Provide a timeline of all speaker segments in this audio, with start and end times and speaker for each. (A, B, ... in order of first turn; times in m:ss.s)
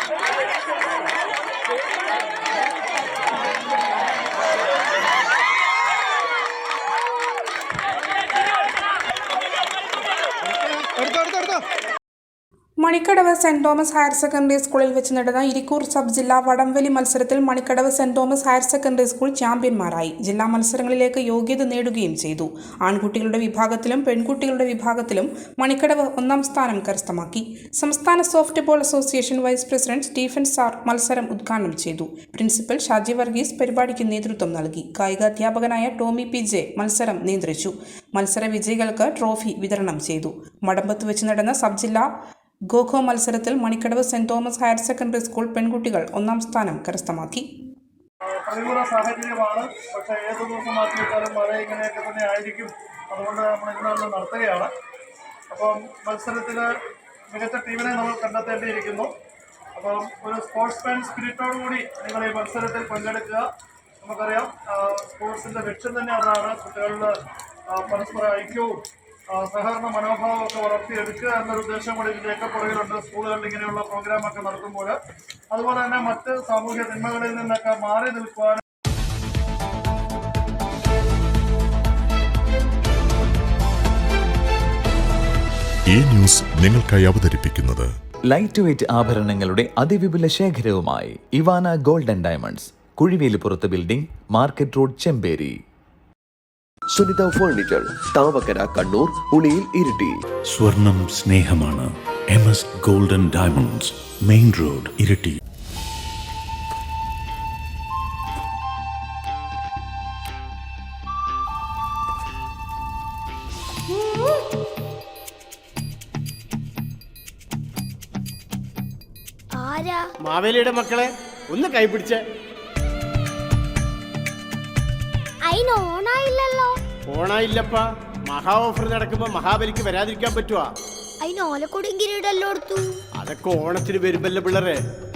0:12.8-0:42.1 A
0:42.7-0:47.5 A
0:48.3-0:54.7 B
0:55.5-0:56.7 B
0:57.3-0:59.1 B
0:59.8-1:03.5 B
1:04.0-1:07.1 B
1:07.7-1:08.8 B
1:09.3-1:15.0 B
1:15.5-1:18.6 B
1:25.9-1:27.9 C
1:28.3-1:35.6 D
1:36.9-1:40.2 E
1:40.5-1:45.4 F
1:53.9-1:54.4 G
1:59.6-2:00.1 G
2:00.2-2:02.2 H
2:05.4-2:06.8 G
2:07.1-2:10.7 H
2:11.2-2:13.0 G
2:13.2-2:14.8 H